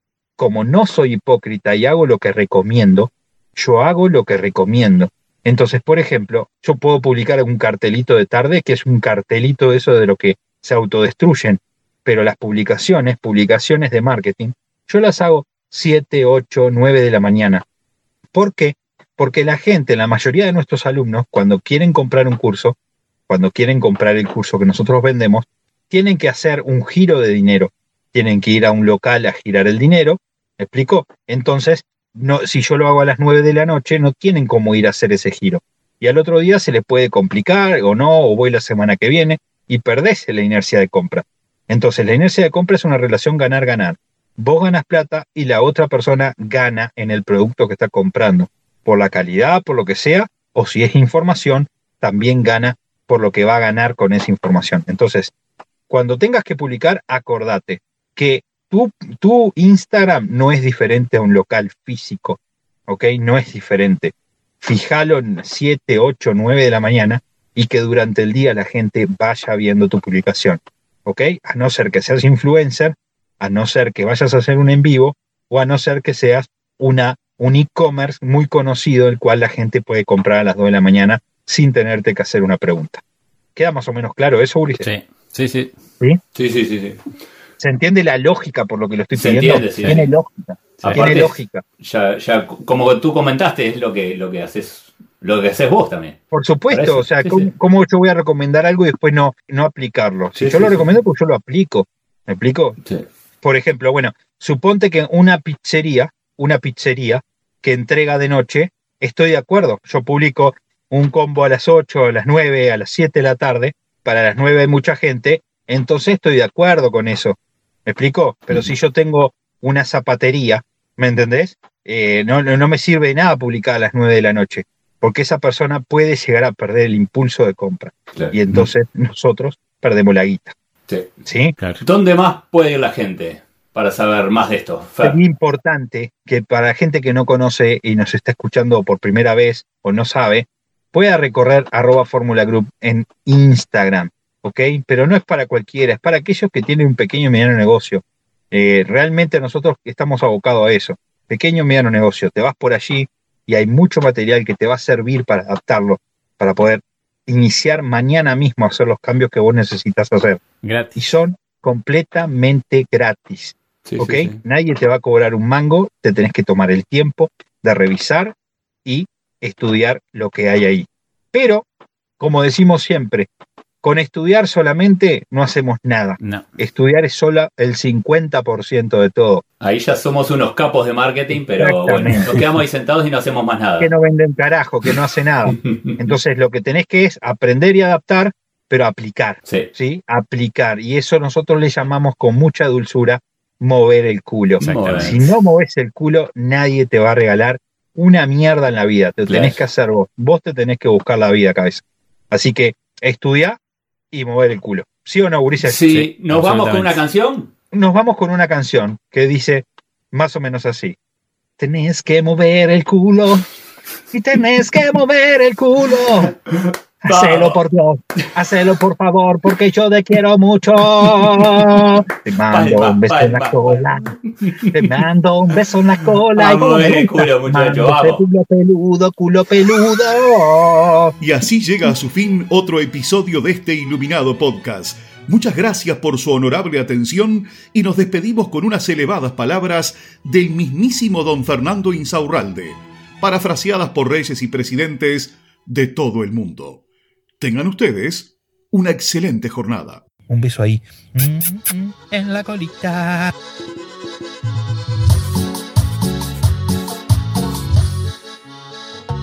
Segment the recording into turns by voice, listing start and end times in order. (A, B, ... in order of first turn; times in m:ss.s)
0:00.4-0:17.6 A
0:18.3-0:22.8 A
0:23.3-0:55.3 A
0:55.9-1:23.0 A
1:23.5-1:24.9 A
1:24.8-1:25.7 B
1:26.3-1:27.0 C
1:27.6-1:31.6 A
1:29.1-1:30.0 C
1:29.8-1:30.0 B
1:30.8-1:31.1 B
1:30.8-1:36.2 C
1:36.3-1:42.8 A
1:36.7-1:37.5 C
1:40.3-1:40.8 C
1:43.4-2:10.5 A
2:08.1-2:08.6 C
2:11.2-2:11.5 A
2:11.8-2:15.2 C
2:15.0-2:40.4 A
2:40.6-2:41.0 B
2:40.9-2:51.6 A
2:43.9-2:44.4 C
2:52.2-2:53.3 A
2:53.8-2:59.4 A
2:59.6-3:03.9 C
3:01.3-3:02.4 A
3:03.8-3:23.6 A
3:05.5-3:05.9 C
3:14.6-3:15.2 B
3:14.6-3:15.2 C
3:19.2-3:19.6 C
3:24.1-3:25.8 A
3:25.6-3:27.5 C
3:25.8-3:27.0 B
3:27.7-3:31.0 A
3:31.6-3:33.4 A
3:34.1-3:36.3 A
3:36.5-3:37.6 C
3:37.0-3:44.1 A
3:42.5-3:43.9 C
3:44.4-3:45.0 C
3:44.7-3:51.1 A
3:46.4-3:48.2 C
3:51.2-4:06.8 D
4:07.4-4:10.0 D
4:10.3-4:13.3 A